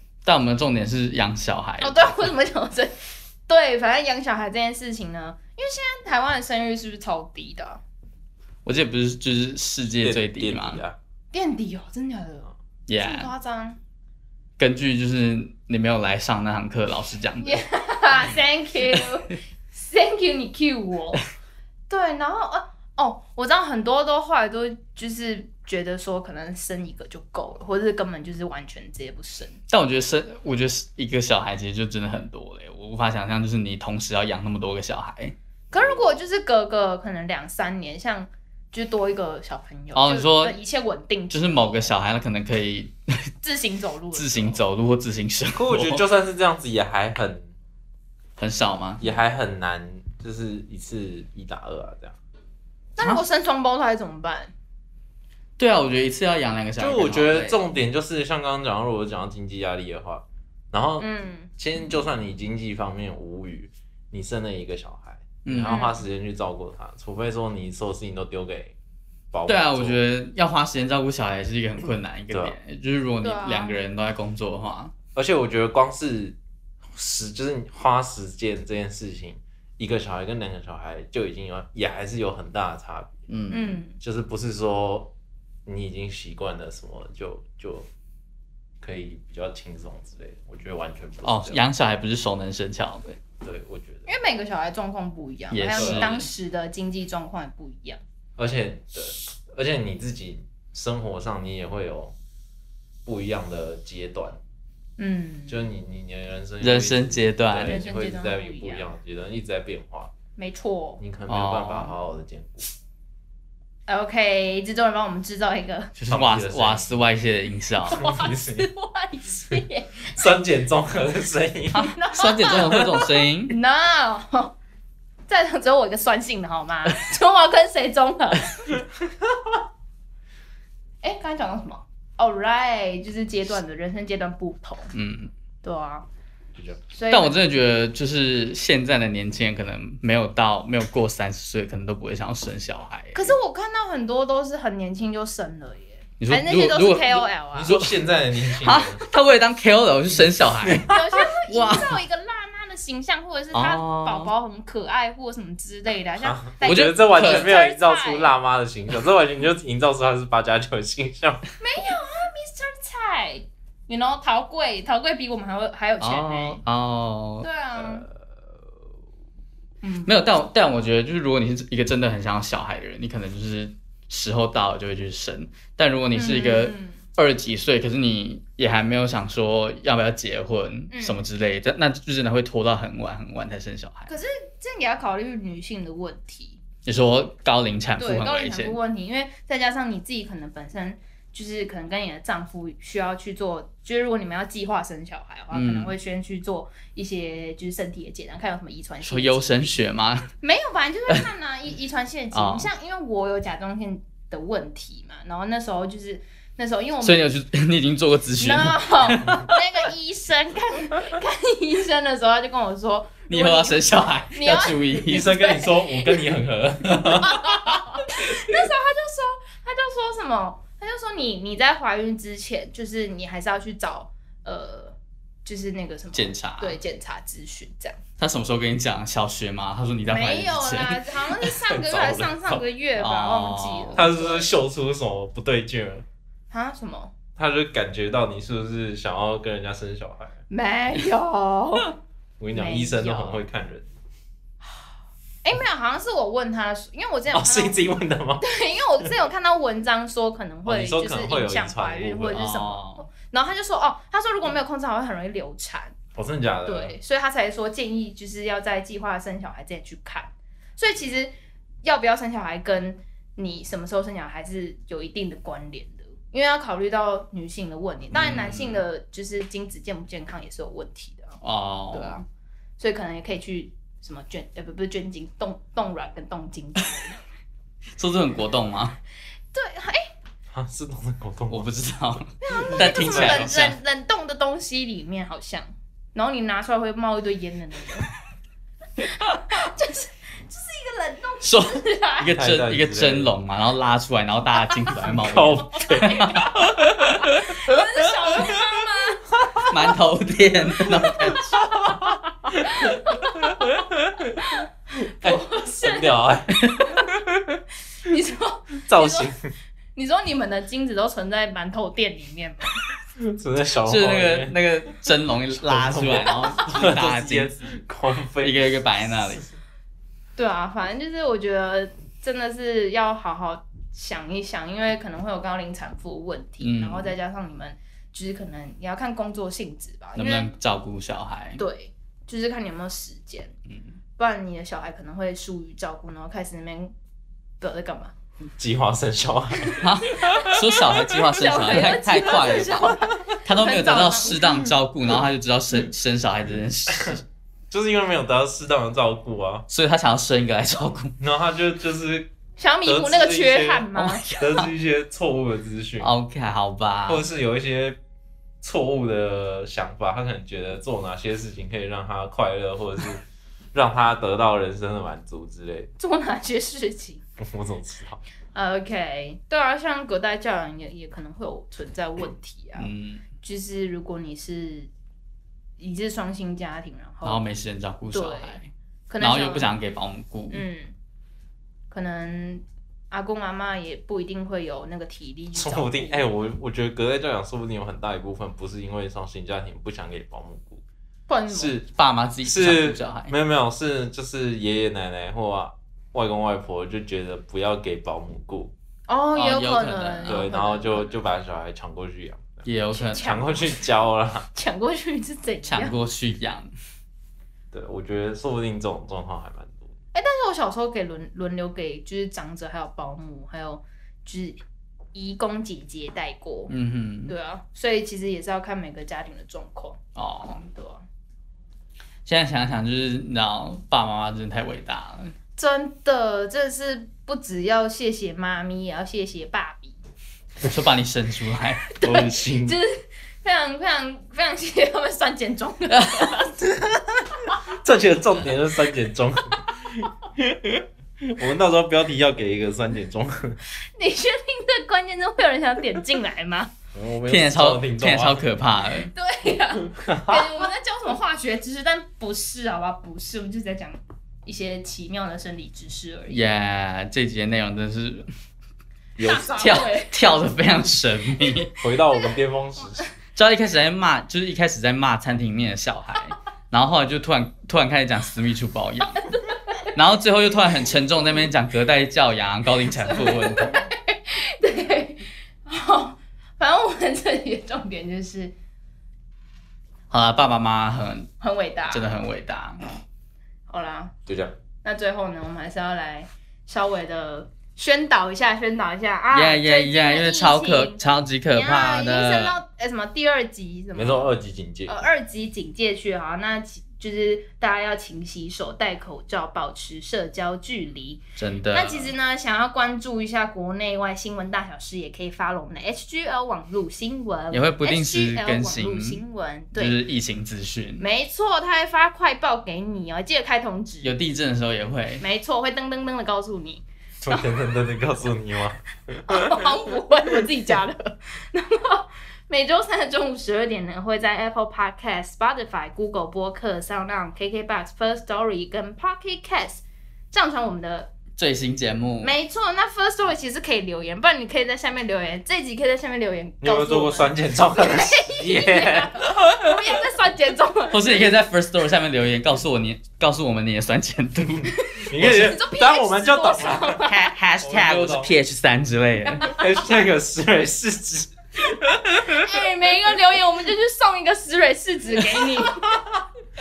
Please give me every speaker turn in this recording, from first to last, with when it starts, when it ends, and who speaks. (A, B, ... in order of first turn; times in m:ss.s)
0:00.2-0:02.3 A
0:01.8-0:07.8 B
0:08.6-0:10.8 A
0:10.0-0:11.0 C
0:11.3-0:13.8 B
0:12.9-0:13.3 A
0:14.6-0:17.6 A
0:17.4-0:21.2 B
0:21.9-0:29.6 B
0:29.7-0:35.3 A
0:35.7-0:41.9 B
0:35.7-0:36.0 C
0:39.9-0:40.6 A
0:41.3-0:43.3 A
0:43.4-0:44.6 B
0:44.1-0:46.0 A
0:45.5-0:47.5 C
0:48.4-0:49.0 A
0:49.0-0:52.2 C
0:53.0-0:54.5 B
0:55.6-0:57.6 A
0:56.8-1:01.1 C
1:01.0-1:01.5 B
1:01.6-1:08.8 C
1:05.4-1:05.8 A
1:05.6-1:06.0 B
1:09.3-1:10.0 C
1:09.5-1:14.9 A
1:13.2-1:13.8 B
1:15.1-1:16.4 C
1:16.9-1:23.1 C
1:23.3-1:23.8 A
1:23.5-1:24.0 B
1:24.0-1:25.1 C
1:25.6-1:27.9 C
1:28.8-1:31.6 C
1:31.2-1:33.2 A
1:33.4-1:34.1 C
1:34.1-1:38.0 B
1:35.5-1:36.3 A
1:35.8-1:36.3 C
1:38.4-1:42.1 C
1:43.0-1:44.4 C
1:45.0-1:45.6 B
1:45.5-1:50.1 C
1:46.6-1:47.8 A
1:47.6-1:48.9 B
1:50.4-1:51.0 B
1:51.0-1:52.7 C
1:51.3-1:52.0 A
1:53.9-1:55.9 B
1:56.0-1:58.0 A
1:56.1-1:57.0 C
1:57.9-2:00.2 B
1:57.9-1:58.7 C
2:00.2-2:01.9 C
2:01.7-2:03.5 A
2:01.7-2:04.5 B
2:02.5-2:03.1 C
2:05.3-2:08.7 B
2:11.0-2:14.9 B
2:14.9-2:15.3 A
2:15.6-2:16.1 B
2:16.5-2:16.8 C
2:16.9-2:17.4 B
2:17.1-2:23.4 A
2:23.1-2:27.8 B
2:26.2-2:27.9 A
2:27.5-2:29.0 C
2:28.5-2:32.0 A
2:30.6-2:31.0 C
2:30.8-2:38.3 B
2:33.5-2:34.3 A
2:36.2-2:41.4 C
2:36.6-2:37.5 A
2:41.6-2:46.6 B
2:46.0-2:47.5 A
2:47.4-2:48.1 B
2:47.8-2:48.4 C
2:49.8-2:50.1 B
2:50.0-3:04.1 A
2:56.1-2:57.0 B
3:00.9-3:01.2 B
3:04.1-3:06.6 B
3:06.8-3:08.8 A
3:08.0-3:19.8 B
3:15.5-3:15.9 A
3:19.0-3:20.3 A
3:20.4-3:27.2 B
3:22.3-3:22.7 A
3:27.0-3:29.6 A
3:28.4-3:36.2 B
3:33.3-3:35.4 A
3:35.0-3:37.4 C
3:37.0-3:48.0 B
3:46.1-3:46.8 A
3:48.2-3:51.2 A
3:50.1-3:54.5 B
3:51.6-3:52.6 C
3:53.0-3:54.1 A
3:54.0-3:56.0 C
3:56.5-3:57.1 B
3:57.4-4:00.4 C
4:00.5-4:02.0 B
4:02.4-4:03.9 C
4:02.5-4:03.4 B
4:05.4-4:07.8 B
4:07.3-4:08.4 C
4:08.4-4:15.9 B
4:10.6-4:12.4 C
4:12.3-4:13.0 A
4:16.1-4:17.0 C
4:16.6-4:32.2 B
4:28.1-4:28.8 A
4:31.4-4:32.2 A
4:32.8-4:37.2 B
4:38.0-4:39.0 A
4:39.5-4:40.1 B
4:40.5-4:41.7 C
4:41.5-4:43.8 A
4:42.4-4:48.1 B
4:42.6-4:43.6 C
4:49.1-4:52.3 B
4:51.4-4:56.5 A
4:52.3-4:53.3 C
4:55.0-4:57.8 C
4:55.7-4:59.6 B
4:59.4-4:59.7 C
4:59.7-5:01.5 A
5:01.0-5:03.8 B
5:01.2-5:04.6 C
5:04.3-5:04.7 B
5:05.2-5:07.1 B
5:05.2-5:07.6 C
5:06.6-5:06.9 A
5:08.0-5:09.3 B
5:08.9-5:09.5 C
5:09.9-5:12.8 B
5:13.2-5:14.6 C
5:13.9-5:17.5 A
5:15.6-5:18.8 C
5:18.4-5:19.4 A
5:20.4-5:30.5 B
5:26.6-5:27.1 A
5:30.2-5:31.6 A
5:31.6-5:33.5 B
5:33.7-5:34.0 A
5:34.2-5:36.9 B
5:37.6-5:38.1 B
5:38.6-5:40.3 C
5:39.7-5:47.2 A
5:40.2-5:44.7 B
5:46.9-5:47.2 C
5:47.7-5:49.6 C
5:49.7-5:51.2 A
5:51.2-5:52.3 C
5:52.6-5:54.2 B
5:52.8-5:56.1 C
5:54.0-5:54.7 A
5:56.0-5:57.2 A
5:57.0-5:58.0 C
5:58.6-6:05.9 C
6:06.0-6:07.2 B
6:07.4-6:08.2 C
6:08.5-6:12.9 B
6:12.8-6:13.2 A
6:13.4-6:14.9 B
6:15.8-6:17.4 B
6:17.2-6:20.6 A
6:18.1-6:18.6 B
6:19.1-6:19.7 B
6:20.5-6:20.9 B
6:21.9-6:26.3 B
6:25.5-6:30.8 C
6:31.3-6:31.8 B
6:31.5-6:31.9 C
6:31.9-6:33.3 A
6:32.4-6:38.7 C
6:39.1-6:41.2 B
6:39.3-6:40.4 A
6:40.3-6:44.5 C
6:42.6-6:43.4 A
6:42.9-6:43.7 B
6:44.5-6:46.0 B
6:45.6-6:46.7 A
6:47.7-6:49.9 C
6:50.1-6:54.6 B
6:55.1-6:56.7 B
6:56.7-6:57.3 A
6:57.3-7:00.0 B
7:00.2-7:00.7 A
7:00.7-7:01.0 B
7:02.2-7:05.3 A
7:05.6-7:10.0 B
7:10.6-7:11.9 A
7:11.9-7:16.5 B
7:12.0-7:12.8 C
7:16.0-7:16.3 A
7:16.6-7:23.6 C
7:24.0-7:26.7 B
7:26.9-7:28.5 C
7:27.3-7:29.1 A
7:29.1-7:36.4 B
7:29.9-7:30.6 C
7:36.3-7:38.3 A
7:39.2-7:39.8 C
7:39.2-7:40.1 B
7:39.5-7:41.7 A
7:41.8-7:43.0 C
7:43.3-7:49.3 A
7:49.2-7:49.5 B
7:49.8-7:53.8 A
7:52.9-7:58.5 B
8:00.1-8:01.3 A
8:01.4-8:02.1 B
8:01.9-8:02.8 A
8:03.7-8:04.1 B
8:04.2-8:04.5 C
8:04.8-8:14.3 B
8:09.3-8:12.6 A
8:13.9-8:15.0 C
8:14.8-8:30.0 B
8:21.4-8:22.1 A
8:27.5-8:29.2 A
8:29.7-8:31.0 A
8:31.0-8:34.1 B
8:34.0-8:35.2 A
8:35.2-8:37.5 B
8:37.2-8:39.8 C
8:39.3-8:51.1 B
8:51.4-8:52.3 A
8:52.2-9:01.2 B
8:56.6-8:59.6 C
9:00.9-9:04.8 A
9:04.7-9:07.3 B
9:05.1-9:07.1 C
9:07.0-9:09.5 A
9:07.6-9:08.4 C
9:09.3-9:09.8 B
9:09.5-9:12.4 C
9:12.2-9:16.1 B